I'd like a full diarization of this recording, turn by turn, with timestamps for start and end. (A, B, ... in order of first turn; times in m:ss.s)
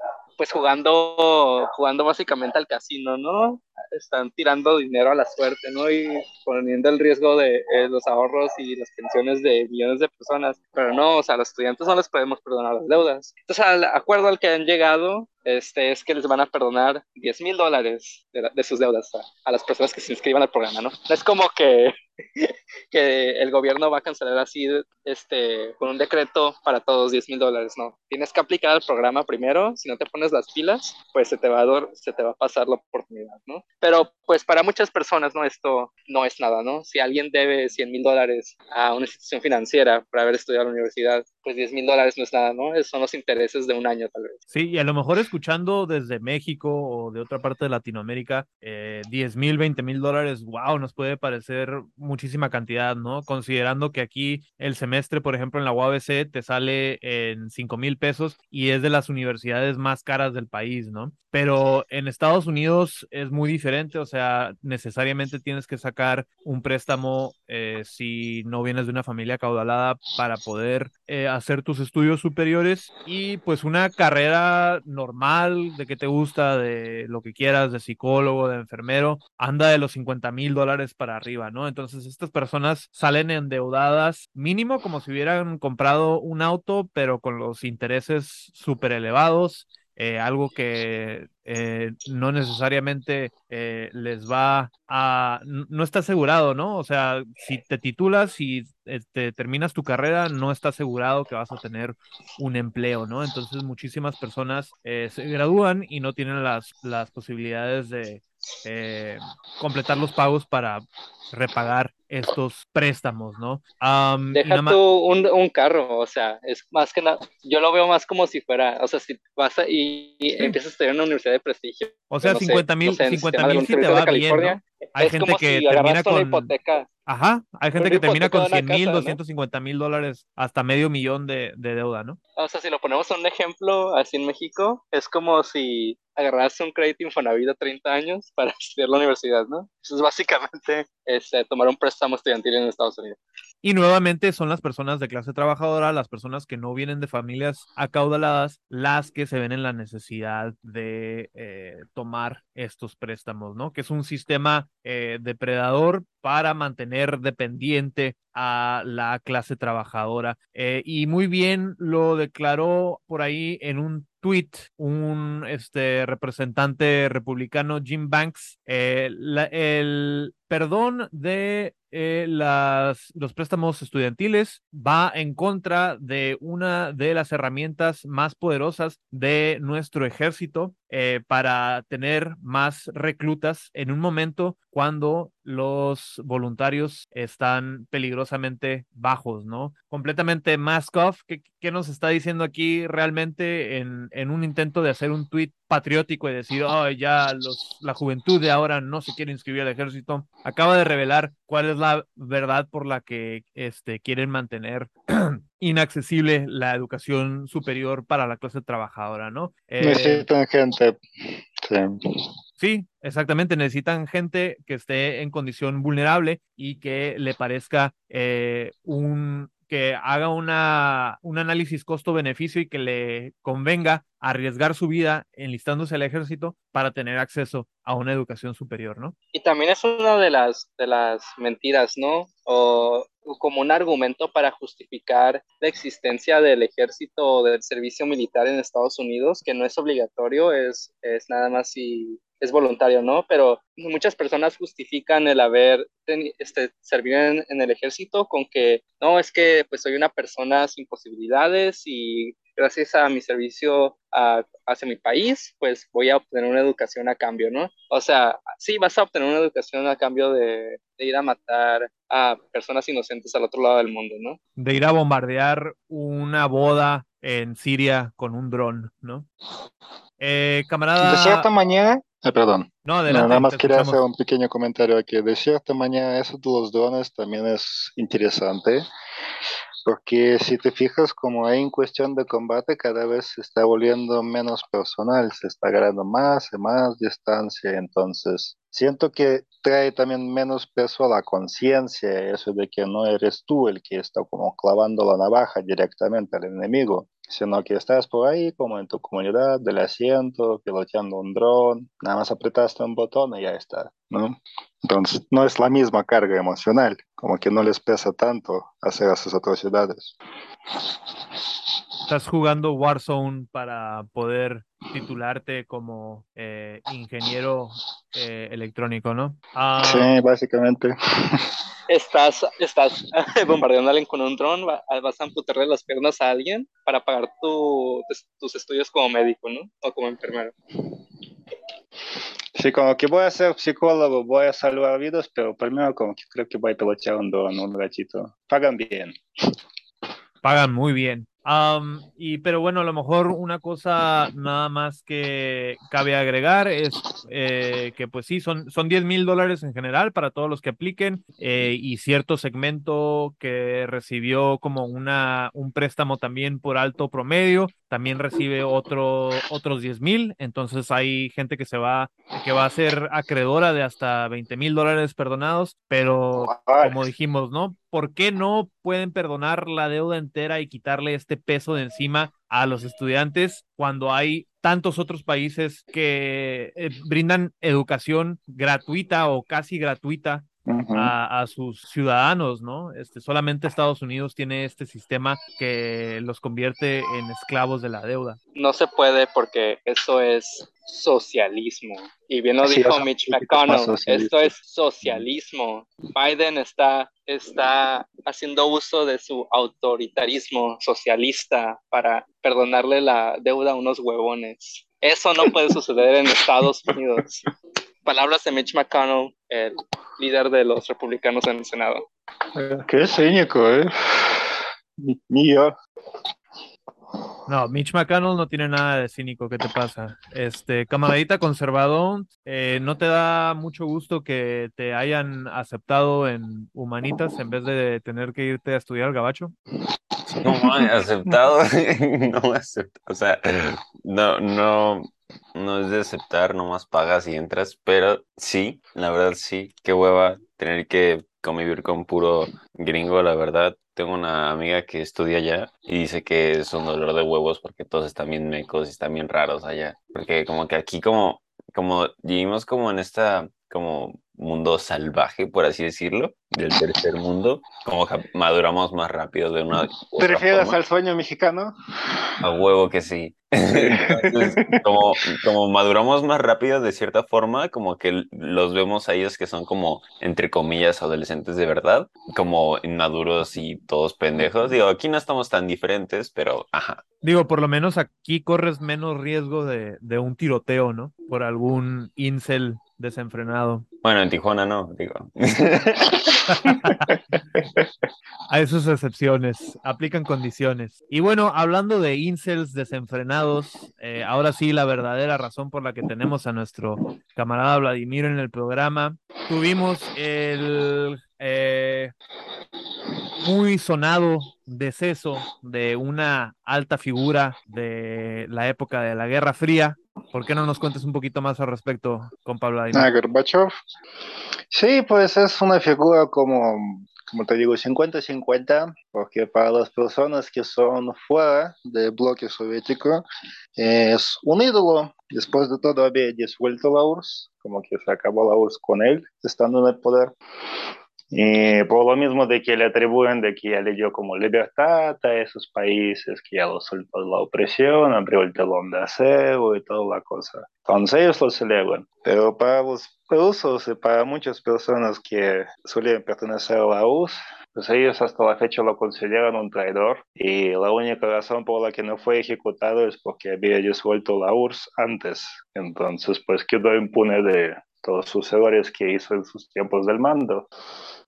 0:00.4-0:44.4 A
0:44.5-1:54.8 B
1:54.3-2:06.9 A
2:02.1-2:06.5 B
2:07.1-2:12.2 B
2:07.8-2:09.2 A
2:12.4-2:23.2 A
2:23.6-3:30.3 B
3:29.8-3:31.0 C
3:31.6-3:32.0 C
3:32.6-3:49.1 B
3:49.3-4:24.4 A
4:24.6-4:29.2 B
4:30.2-4:31.5 B
4:31.0-4:38.8 C
4:32.8-4:34.0 B
4:39.8-5:10.1 C
5:12.1-5:20.1 B
5:19.8-5:21.5 C
5:21.9-5:30.5 A
5:32.6-5:39.2 C
5:40.4-6:28.4 B
6:06.4-6:07.1 C
6:20.6-6:21.1 C
6:28.5-6:47.5 A
6:32.6-6:35.2 C
6:48.0-6:52.0 A
6:52.6-6:55.7 C
6:57.5-7:09.5 B
7:10.3-7:11.4 C
7:10.3-7:40.8 D
7:40.1-7:41.7 C
7:42.4-7:57.0 D
7:43.7-7:44.7 C
7:57.2-8:03.8 B
8:04.0-8:06.4 D
8:06.5-8:07.1 B
8:08.5-8:22.1 B
8:23.4-8:33.1 B
8:32.9-8:33.7 C
8:34.7-8:43.2 C
8:43.8-8:50.3 C
8:51.3-9:20.7 C